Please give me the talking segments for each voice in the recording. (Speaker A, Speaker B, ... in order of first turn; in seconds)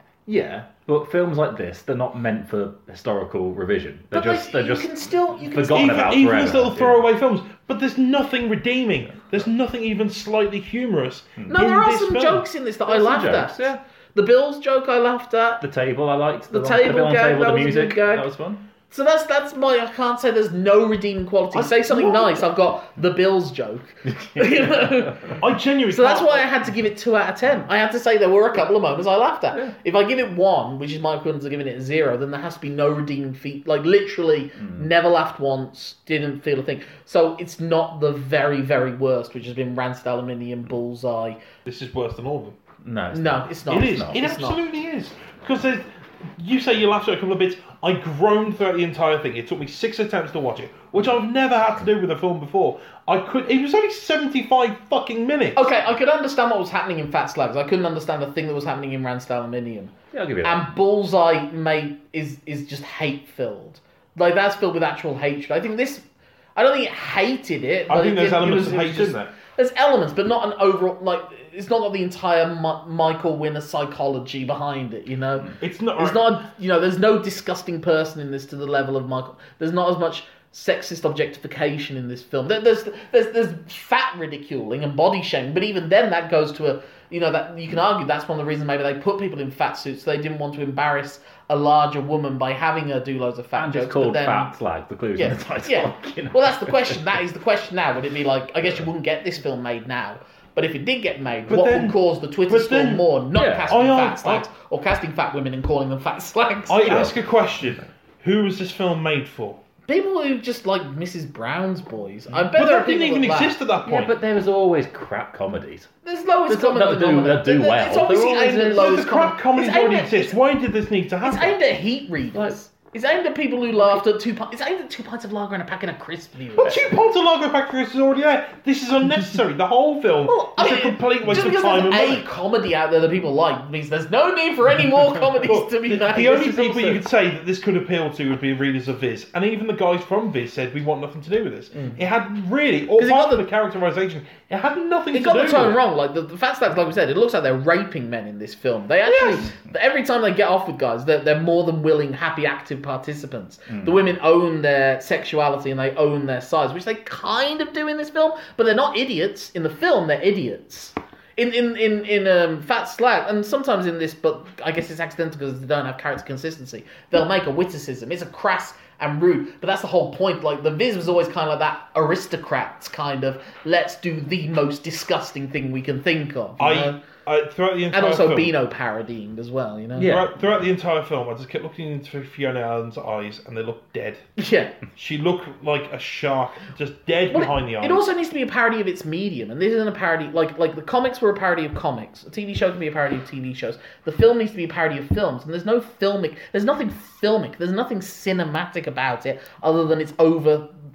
Speaker A: 0.2-7.1, 12.9-13.8, 15.6-18.6, 24.2-25.3, 34.6-34.9, 42.8-44.2, 60.1-60.7, 93.5-97.1, 103.3-104.4, 106.8-107.1, 113.8-115.9, 116.5-118.9, 136.1-137.0, 153.7-154.0, 179.9-180.3
Speaker B: 4.1-6.1, 11.5-15.6, 16.5-18.3, 18.9-25.4, 25.9-41.4, 43.1-44.6, 55.5-66.0, 66.5-94.5, 95.1-107.1, 109.9-113.5, 116.0-120.4, 121.2-126.8, 130.3-136.6, 143.0-143.4, 145.1-177.0, 177.9-180.2, 184.4-184.7, 187.3-200.7
Speaker C: 5.7-12.4, 21.5-22.4, 25.4-26.5, 41.6-42.5, 43.7-45.8, 46.4-55.7, 67.9-69.3, 75.6-76.3, 101.5-103.1, 103.7-104.4, 106.7-109.6, 112.5-114.1, 118.6-121.6, 126.5-132.2, 135.4-145.8, 149.1-149.4, 176.6-178.5, 180.0-184.2, 184.9-188.0